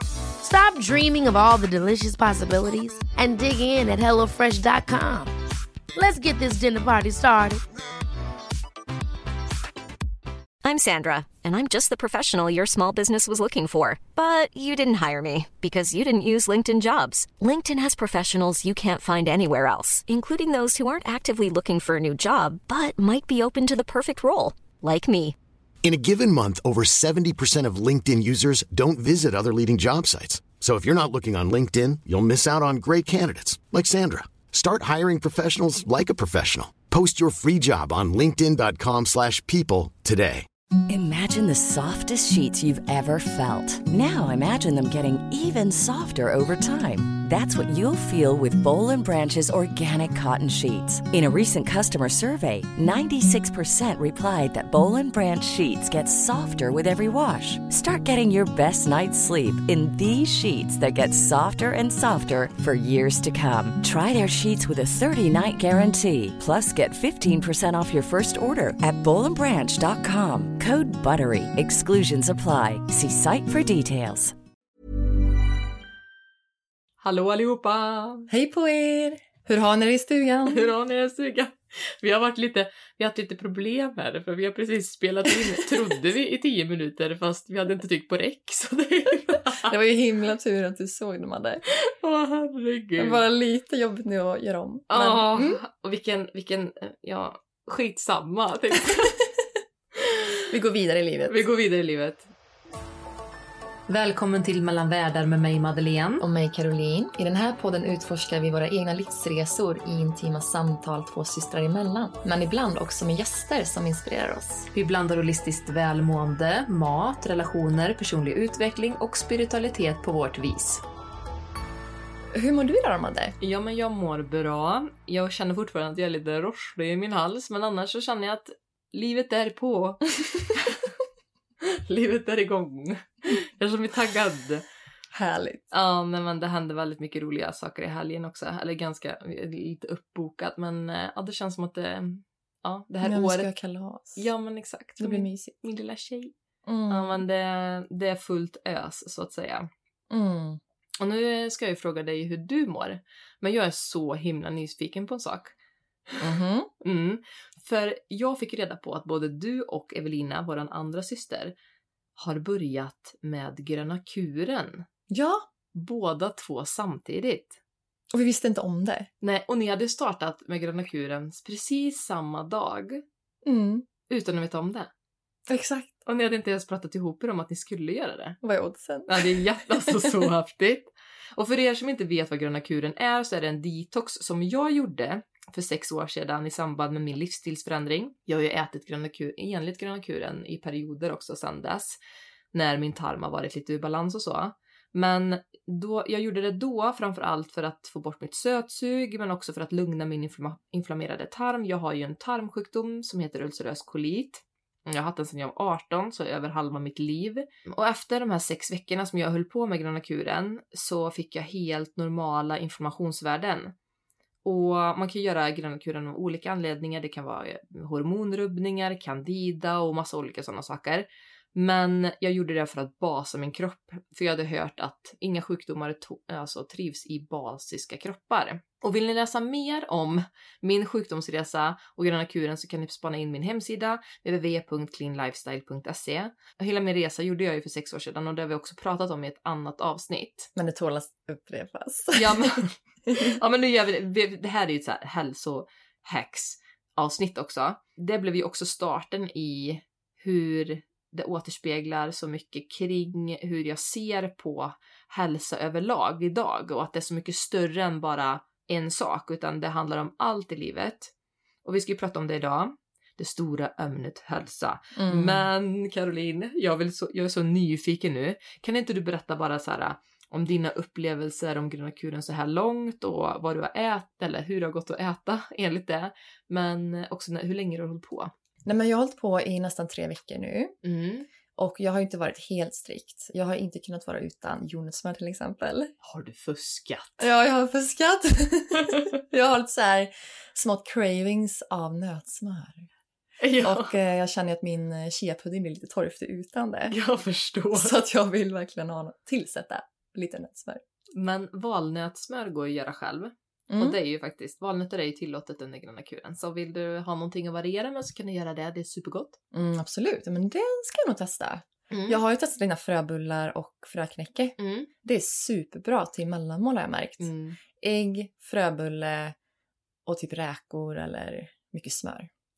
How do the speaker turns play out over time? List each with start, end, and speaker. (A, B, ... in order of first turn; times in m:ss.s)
0:00.4-0:05.3 A
0:06.0-0:07.6 A
0:10.6-0:25.4 B
0:25.8-0:40.5 C
0:40.9-1:14.3 D
1:17.0-1:18.3 E
1:18.3-1:20.7 F
1:20.5-1:29.7 E
1:29.6-1:31.6 F
1:31.8-1:33.2 E
1:33.0-1:35.6 F
1:34.9-1:39.2 E
1:40.0-1:40.4 E
1:40.5-1:41.5 F
1:41.3-1:42.3 E
1:43.9-1:46.2 E
1:46.2-1:54.7 F
1:54.7-2:00.8 E
2:02.3-2:03.4 F
2:03.4-2:10.9 E
2:11.6-2:14.6 E
2:15.1-2:15.6 F
2:15.7-2:23.5 E
2:23.0-2:24.2 F
2:24.2-2:26.3 E
2:25.0-2:25.6 F
2:26.7-2:27.2 F
2:26.9-2:29.7 E
2:30.1-2:30.6 F
2:31.0-2:35.5 E
2:36.2-2:36.7 F
2:36.8-2:41.6 E
2:42.2-2:44.8 E
2:45.1-2:45.5 F
2:45.8-2:47.6 E
2:48.1-2:49.1 F
2:49.2-2:53.0 E
2:53.4-2:53.9 F
2:54.1-2:54.9 E
2:55.5-2:55.9 F
2:56.1-2:58.4 E
2:58.4-3:00.3 F
2:59.1-3:12.0 E
3:12.5-3:33.7 E
3:34.4-4:00.5 E
4:00.6-4:03.4 F
4:02.2-4:21.1 E
4:21.6-4:38.3 E
4:25.0-4:25.5 F
4:38.6-4:40.8 F
4:40.8-4:41.3 E
4:41.6-4:45.9 F
4:46.0-4:47.3 E
4:47.2-4:52.9 F
4:53.4-4:54.0 E
4:53.6-4:57.0 F
4:56.9-4:58.0 E
4:57.7-5:00.8 F
5:01.2-5:09.4 E
5:03.7-5:04.0 F
5:09.5-5:19.4 F
5:11.9-5:12.2 E
5:14.6-5:14.9 E
5:17.2-5:17.6 E
5:20.1-5:22.3 F